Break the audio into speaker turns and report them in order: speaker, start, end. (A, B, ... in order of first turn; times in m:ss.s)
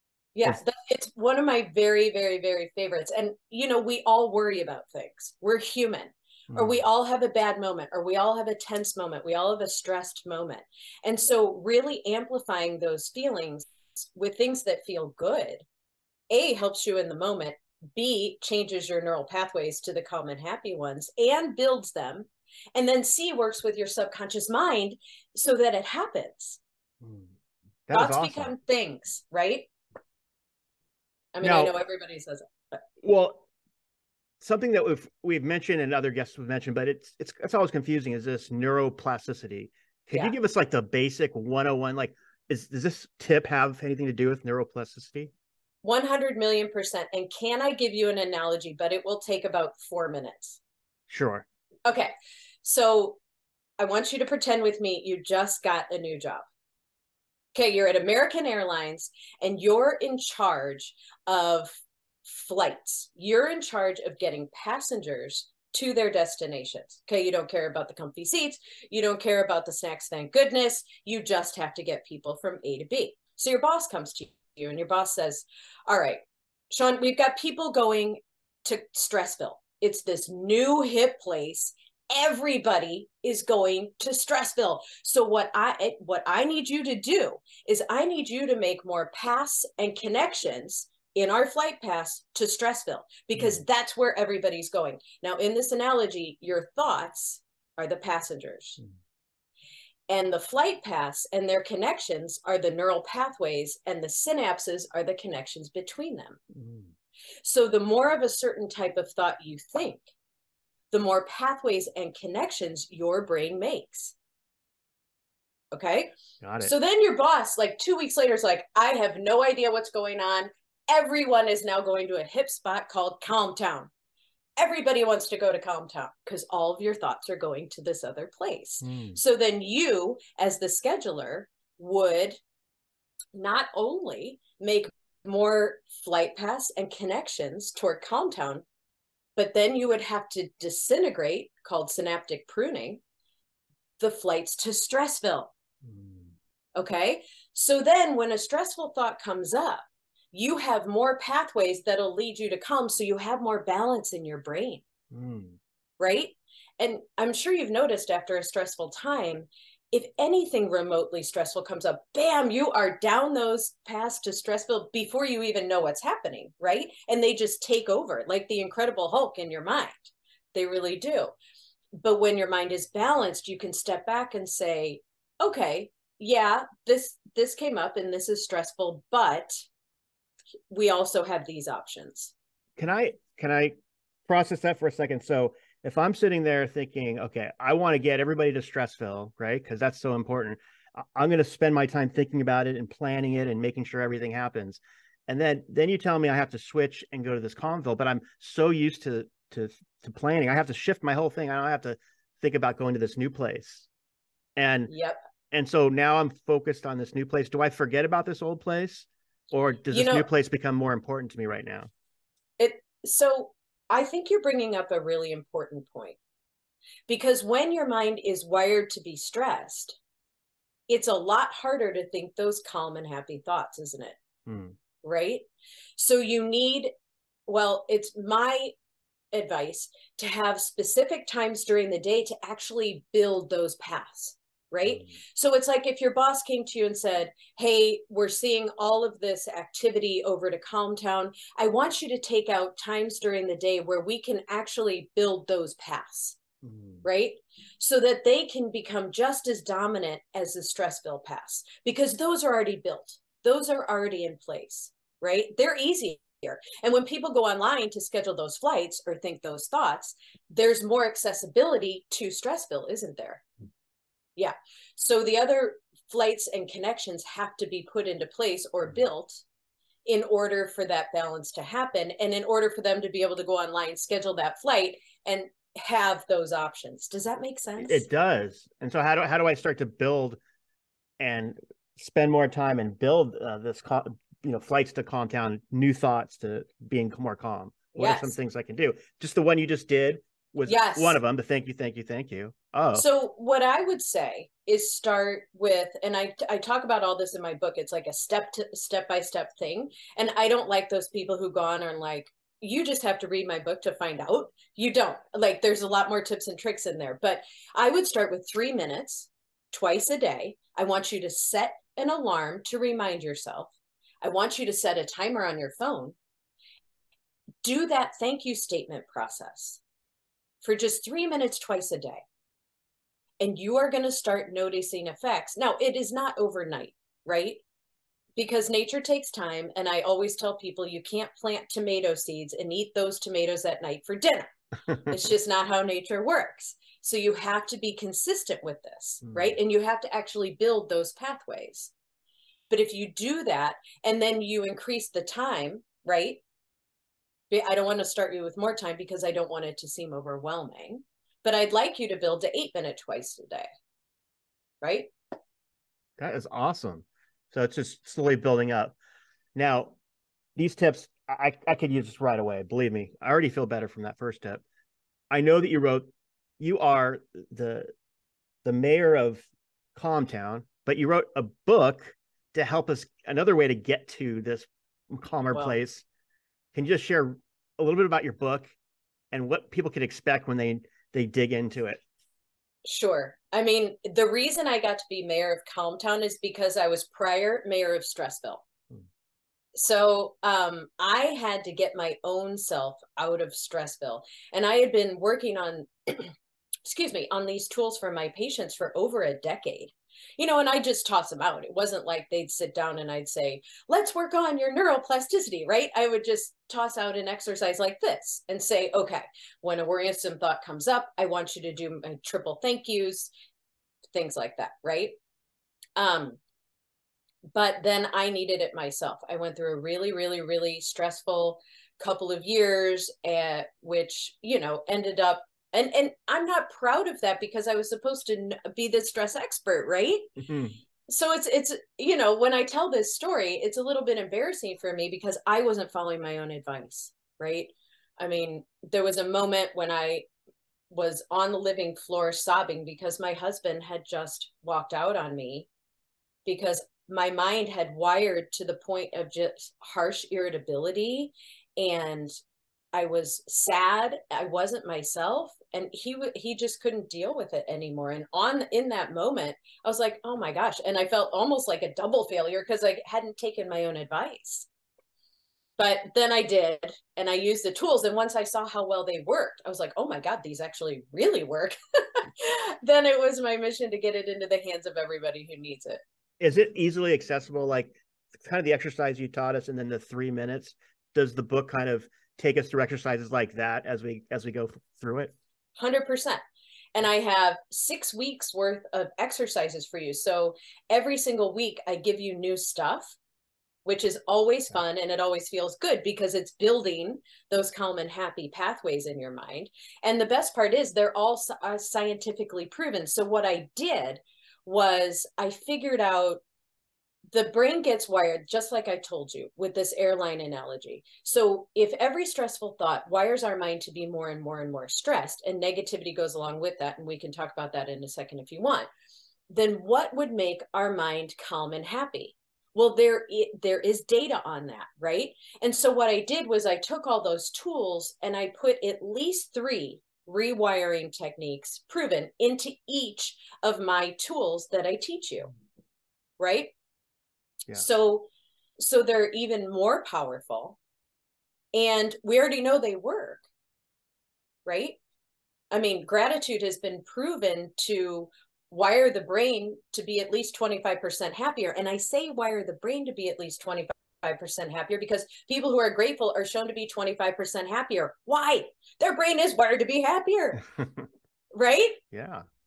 0:00.3-0:15.6 A
0:06.5-0:06.8 B
0:16.3-0:26.6 A
0:27.0-0:27.3 B
0:27.9-0:28.5 B
0:27.9-0:29.7 A
0:31.3-0:32.5 A
0:31.4-0:31.7 B
0:33.0-0:33.5 B
0:34.4-0:45.3 B
0:45.8-0:50.6 A
0:51.1-0:51.4 B
0:51.8-0:52.1 A
0:52.6-0:53.2 A
0:53.8-0:56.4 A
0:57.5-1:38.8 A
1:33.4-1:33.6 B
1:40.1-1:46.4 A
1:46.5-1:46.9 B
1:47.4-1:50.1 A
1:50.9-1:54.1 A
1:55.7-2:03.9 A
1:56.4-1:56.7 B
2:04.6-2:12.4 A
2:08.8-2:09.2 B
2:13.3-2:18.6 A
2:19.4-2:23.0 A
2:24.0-2:25.5 A
2:25.8-2:26.3 B
2:26.8-2:34.8 A
2:35.1-2:35.6 B
2:36.0-2:51.3 A
2:52.0-2:59.7 A
3:00.7-3:02.3 A
3:02.8-3:03.7 B
3:04.3-3:23.9 B
3:24.6-3:24.9 B
3:24.9-3:25.2 A
3:25.5-3:31.9 B
3:29.9-3:30.2 A
3:32.6-3:36.2 A
3:37.1-3:40.0 A
3:40.9-3:44.2 A
3:44.5-3:44.8 B
3:45.0-3:46.9 A
3:47.5-3:48.7 A
3:49.3-4:06.4 A
3:54.9-3:55.1 B
4:06.6-4:07.0 B
4:07.0-4:23.4 A
4:24.4-4:29.4 A
4:30.0-4:38.1 A
4:37.8-4:40.4 B
4:41.2-4:53.1 B
4:47.9-4:48.4 A
4:50.6-4:51.2 A
4:52.9-5:16.2 A
5:17.6-5:19.8 A
5:20.6-5:22.2 A
5:23.4-5:27.6 A
5:28.4-5:34.5 A
5:35.0-5:41.9 A
5:39.2-5:39.6 B
5:42.7-5:46.4 A
5:47.5-5:53.7 A
5:54.8-5:55.1 A
5:56.2-5:59.0 B
5:59.5-6:00.0 B
6:00.6-6:04.6 B
6:05.3-6:06.1 B
6:06.6-6:07.9 B
6:08.6-6:16.0 B
6:15.5-6:15.8 A
6:16.7-6:18.7 B
6:19.3-6:22.0 B
6:22.8-6:28.6 A
6:29.7-6:36.3 A
6:36.8-6:53.3 A
6:54.1-6:55.2 A
6:56.0-6:56.4 A
6:57.5-7:10.4 A
7:10.4-7:10.8 B
7:11.1-7:20.3 A
7:20.9-7:25.7 A
7:26.4-7:32.3 A
7:32.9-7:44.7 A
7:45.8-7:56.0 A
7:56.4-8:05.3 B
8:05.8-8:06.4 A
8:06.9-8:13.2 A
8:13.8-8:26.4 A
8:27.3-8:38.9 A
8:39.5-8:55.5 A
8:56.4-8:56.7 A
8:57.7-9:00.8 A
9:01.7-9:03.4 A
9:04.6-9:05.0 A
9:05.7-9:20.7 A
9:21.5-9:22.0 A
9:22.1-9:22.4 B